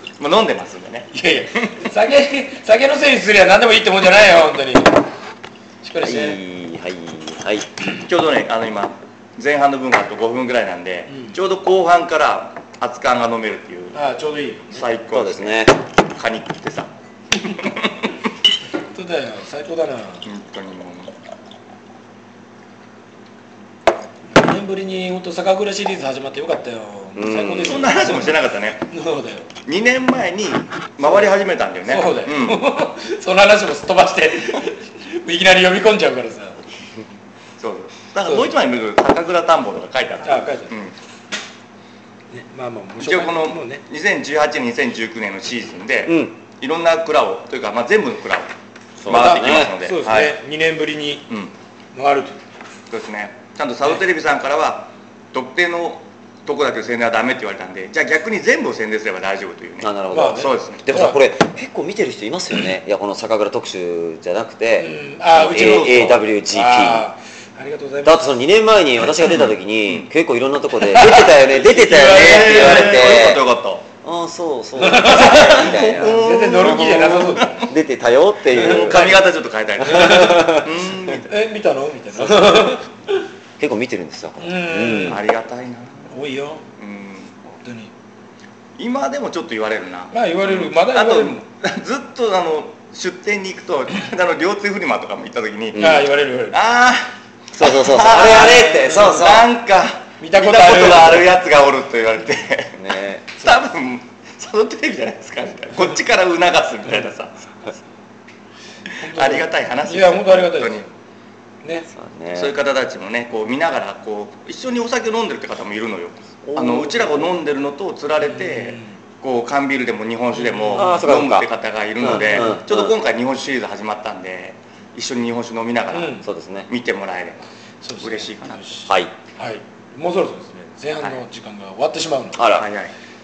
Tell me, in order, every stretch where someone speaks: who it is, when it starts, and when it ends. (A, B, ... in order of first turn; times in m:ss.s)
0:00.2-0:01.1 A
0:01.1-0:05.0 B
0:05.8-0:06.4 B
0:06.0-0:07.7 C
0:08.0-0:14.0 A
0:13.9-0:14.8 B
0:14.7-0:16.9 A
0:15.1-0:15.7 C
0:17.4-0:17.9 A
0:18.9-0:20.2 B
0:20.2-0:21.1 A
0:24.3-0:28.3 B
0:27.2-0:28.1 C
0:27.6-0:28.8 A
0:28.9-0:29.5 B
0:29.6-0:32.7 A
0:31.0-0:31.3 B
0:31.8-0:36.6 B
0:37.6-0:40.9 A
0:38.2-0:38.5 B
0:40.2-0:40.9 B
0:42.3-0:43.8 B
0:43.0-0:48.5 A
0:46.1-0:46.3 C
0:49.0-0:49.7 C
0:49.0-0:50.4 A
0:49.1-0:51.3 B
0:51.9-0:52.4 B
0:52.9-1:00.9 A
0:59.8-1:07.0 C
1:00.1-1:01.2 B
1:04.8-1:08.3 B
1:05.3-1:06.2 A
1:08.0-1:13.4 C
1:10.8-1:13.0 B
1:11.8-1:13.8 A
1:14.0-1:16.2 C
1:14.8-1:17.7 B
1:15.1-1:17.7 A
1:17.6-1:19.1 C
1:18.5-1:19.3 B
1:18.5-1:21.3 A
1:19.8-1:20.6 B
1:19.9-1:20.7 C
1:21.2-1:23.2 B
1:22.1-1:22.8 C
1:23.6-1:25.2 C
1:24.4-1:25.2 B
1:25.0-1:26.1 A
1:26.1-1:26.6 B
1:26.8-1:27.4 A
1:27.6-1:27.9 B
1:28.8-1:35.9 A
1:30.1-1:31.4 B
1:35.7-1:36.1 C
1:35.8-1:36.6 B
1:36.5-1:42.8 A
1:37.5-1:39.5 C
1:38.7-1:39.2 B
1:40.2-1:41.4 B
1:42.8-1:43.4 C
1:43.4-1:47.8 A
1:49.0-1:50.9 B
1:49.0-1:50.8 A
1:51.9-1:52.5 C
1:52.3-2:06.2 A
1:56.4-1:57.3 C
1:58.2-1:58.9 B
2:00.3-2:01.1 B
2:00.7-2:01.5 C
2:02.0-2:02.9 C
2:02.1-2:02.6 B
2:05.9-2:06.2 B
2:06.2-2:06.7 C
2:06.7-2:07.4 A
2:07.8-2:12.4 B
2:08.0-2:08.8 A
2:12.4-2:12.6 C
2:12.5-2:12.9 A